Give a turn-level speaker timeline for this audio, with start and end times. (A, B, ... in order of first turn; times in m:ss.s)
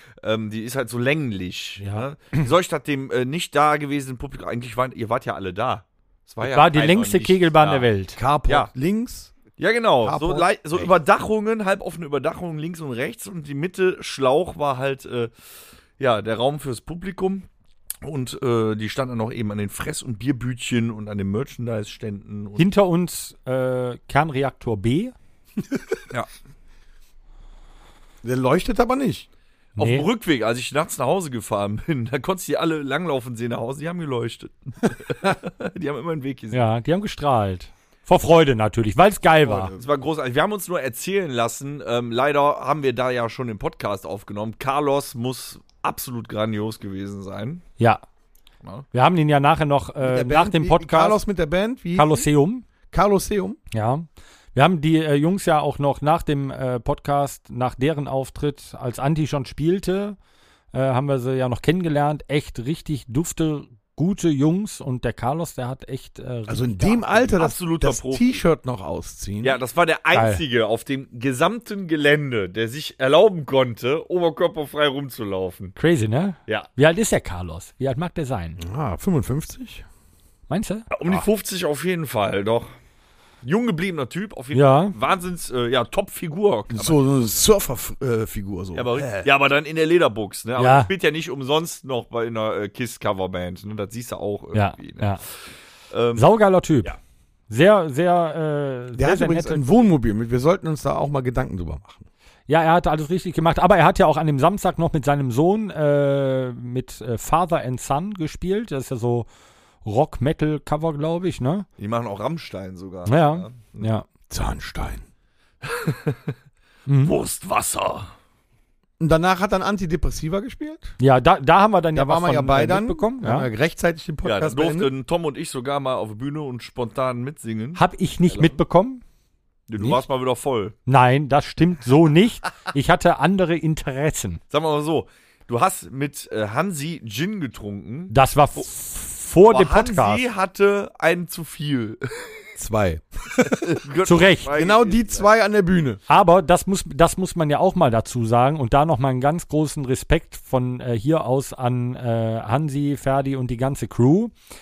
0:00.2-0:07.9 A
0:01.8-0:02.5 B
0:06.4-0:08.2 B
0:08.2-0:09.4 C
0:09.6-0:15.3 A
0:10.0-0:10.9 C
0:16.0-0:17.5 A
0:18.0-0:22.7 A
0:22.6-0:25.1 B
0:28.2-0:29.3 C
0:29.8-0:36.6 A
0:29.8-0:30.1 B
0:36.5-0:39.7 B
0:39.7-0:47.6 A
0:48.9-0:51.2 B
0:50.0-0:52.3 C
0:52.0-0:52.7 B
0:52.9-0:53.6 C
0:53.7-1:00.2 B
1:00.7-1:07.4 B
1:06.5-1:09.6 C
1:07.4-1:08.4 A
1:09.4-1:15.8 A
1:10.1-1:10.4 B
1:15.8-1:18.6 B
1:18.6-1:19.8 C
1:20.5-1:20.9 B
1:20.9-1:22.7 A
1:23.4-1:27.1 A
1:24.5-1:25.0 B
1:26.7-1:29.2 C
1:28.7-1:35.3 A
1:30.6-1:30.9 B
1:34.5-1:35.2 B
1:35.9-1:36.3 A
1:36.2-1:37.0 B
1:37.5-1:39.6 B
1:39.0-1:42.0 C
1:42.5-1:49.3 B
1:49.8-1:51.7 B
1:51.8-1:53.9 A
1:53.1-1:54.0 B
1:54.3-1:55.0 C
1:55.6-1:56.4 A
1:56.9-1:57.1 B
1:57.0-1:58.1 A
1:59.0-2:01.0 C
2:01.0-2:03.5 B
2:01.9-2:04.9 C
2:04.2-2:08.6 A
2:07.8-2:09.0 B
2:09.7-2:10.8 A
2:09.8-2:10.0 C
2:10.9-2:14.4 B
2:14.5-2:18.1 A
2:18.1-2:20.2 B
2:19.4-2:22.4 A
2:22.6-2:23.7 C
2:23.4-2:25.3 A
2:24.0-2:24.5 B
2:24.5-2:26.0 C
2:26.1-2:34.3 B